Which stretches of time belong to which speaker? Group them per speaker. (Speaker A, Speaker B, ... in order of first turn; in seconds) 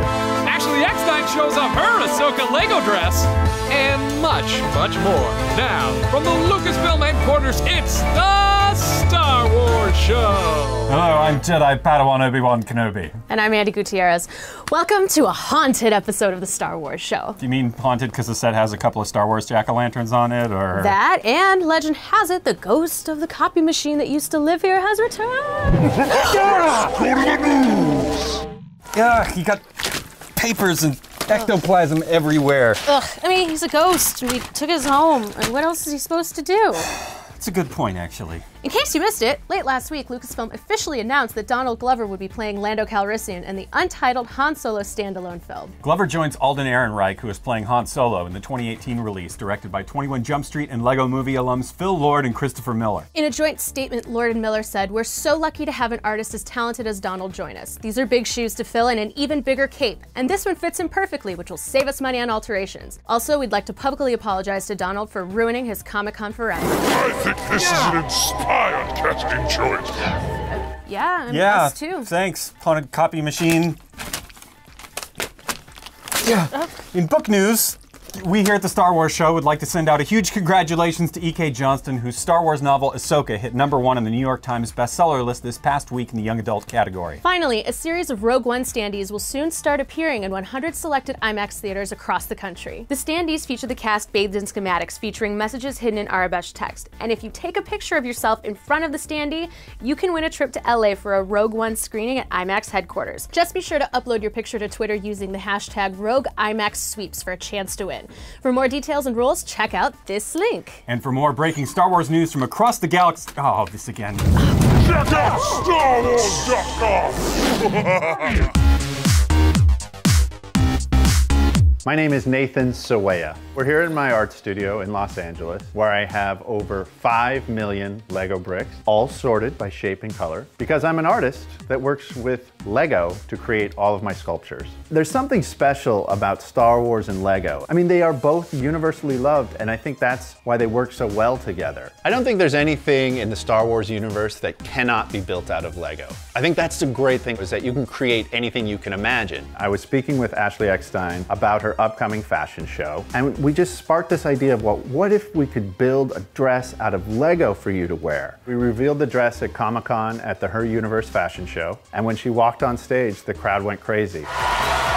Speaker A: 0.4-11.0
Speaker B: 10.9-13.2, 17.4-20.9, 26.4-26.8, 28.9-29.6, 30.3-32.8, 37.2-38.5, 45.8-53.1, 71.3-73.8, 76.2-87.2, 110.9-114.3
Speaker C: 13.3-17.4, 20.7-26.0, 32.8-36.9, 38.6-45.8, 53.1-67.0, 70.7-72.1, 87.2-110.8
Speaker D: 25.9-28.4, 66.9-70.1, 114.8-118.5
Speaker E: 121.8-164.3